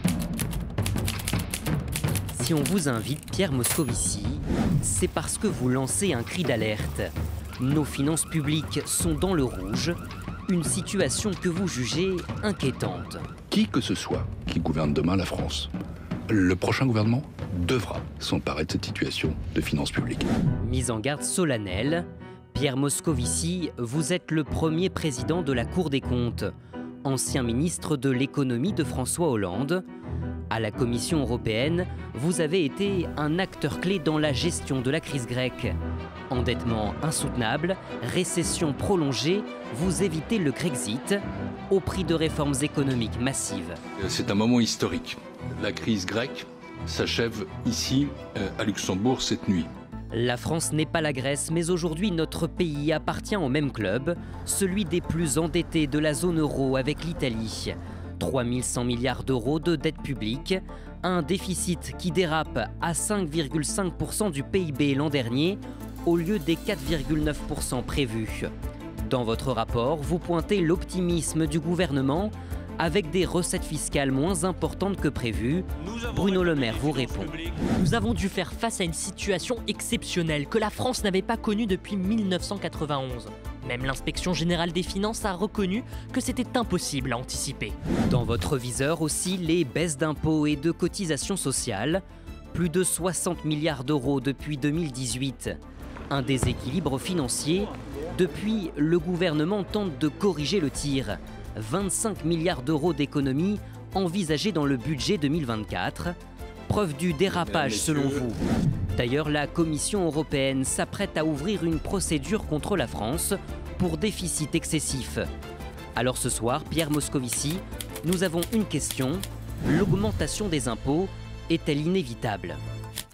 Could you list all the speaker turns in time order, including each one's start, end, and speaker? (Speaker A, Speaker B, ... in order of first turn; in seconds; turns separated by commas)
Speaker A: 2.3-9.9, Speaker A: 10.5-13.2, Speaker B: 13.5-15.7, Speaker B: 16.3-20.3, Speaker A: 20.6-26.5, Speaker A: 27.0-29.8, Speaker A: 30.5-35.8, Speaker A: 36.3-43.8, Speaker B: 44.0-49.7, Speaker A: 50.1-68.5, Speaker A: 69.0-77.5, Speaker C: 77.6-87.8, Speaker A: 88.1-92.0, Speaker A: 92.5-95.5, Speaker A: 96.1-106.1, Speaker A: 106.7-108.4, Speaker B: 107.3-108.3, Speaker A: 108.9-115.3, Speaker A: 116.0-122.6